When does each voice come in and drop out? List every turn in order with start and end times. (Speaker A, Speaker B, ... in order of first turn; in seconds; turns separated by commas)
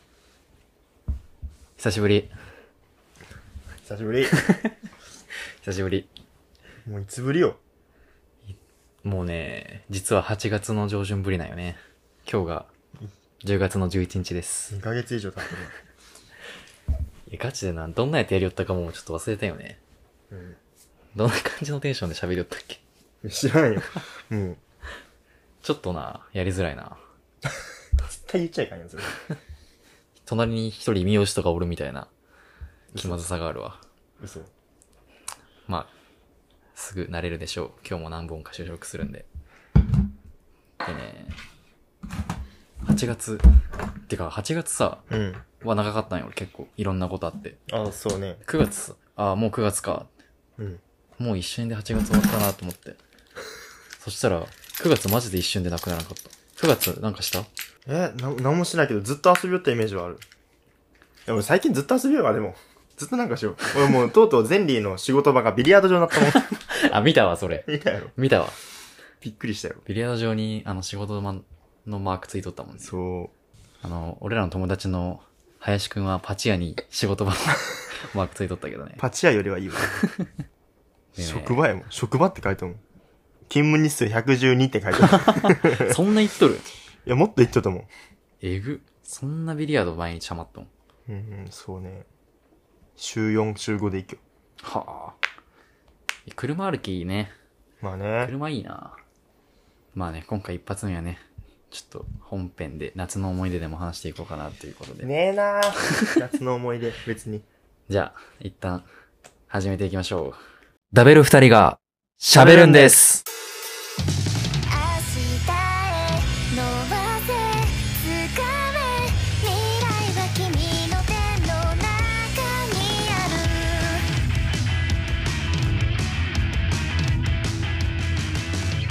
Speaker A: 1.8-2.3, Speaker B: 3.8-4.4, Speaker A: 4.4-4.7, Speaker A: 5.6-6.1, Speaker B: 6.8-7.6, Speaker A: 9.0-12.7, Speaker A: 13.4-14.7, Speaker B: 14.7-15.7, Speaker A: 17.3-19.8, Speaker B: 20.3-20.6, Speaker A: 21.2-22.8, Speaker B: 23.2-24.6, Speaker A: 25.6-27.0, Speaker B: 28.1-29.2, Speaker A: 30.2-32.1, Speaker B: 32.9-33.2, Speaker A: 33.0-33.8, Speaker B: 34.2-34.5, Speaker A: 36.8-39.3, Speaker A: 40.8-41.4, Speaker A: 42.8-43.5, Speaker A: 44.1-45.1, Speaker B: 45.1-45.4, Speaker A: 45.6-47.6, Speaker B: 47.7-48.4, Speaker A: 48.4-50.1, Speaker A: 51.2-53.0, Speaker A: 54.0-57.5, Speaker B: 57.9-60.2, Speaker B: 61.3-66.5, Speaker A: 66.3-68.6, Speaker B: 67.6-68.1, Speaker B: 69.2-69.8, Speaker A: 69.8-72.9, Speaker B: 72.8-73.3, Speaker A: 73.8-79.0, Speaker B: 79.0-80.0, Speaker A: 81.1-81.6, Speaker B: 81.2-82.8, Speaker B: 83.5-86.0, Speaker A: 85.0-86.7, Speaker B: 87.0-87.9, Speaker A: 88.4-90.7, Speaker B: 91.1-92.0, Speaker B: 93.0-94.2, Speaker A: 94.6-95.2, Speaker A: 96.3-97.3, Speaker B: 97.8-98.3, Speaker A: 98.2-99.0, Speaker A: 99.9-105.1, Speaker B: 105.0-107.4, Speaker A: 107.9-108.8, Speaker A: 109.5-110.4, Speaker A: 110.9-113.2, Speaker B: 112.3-113.0, Speaker C: 114.7-124.1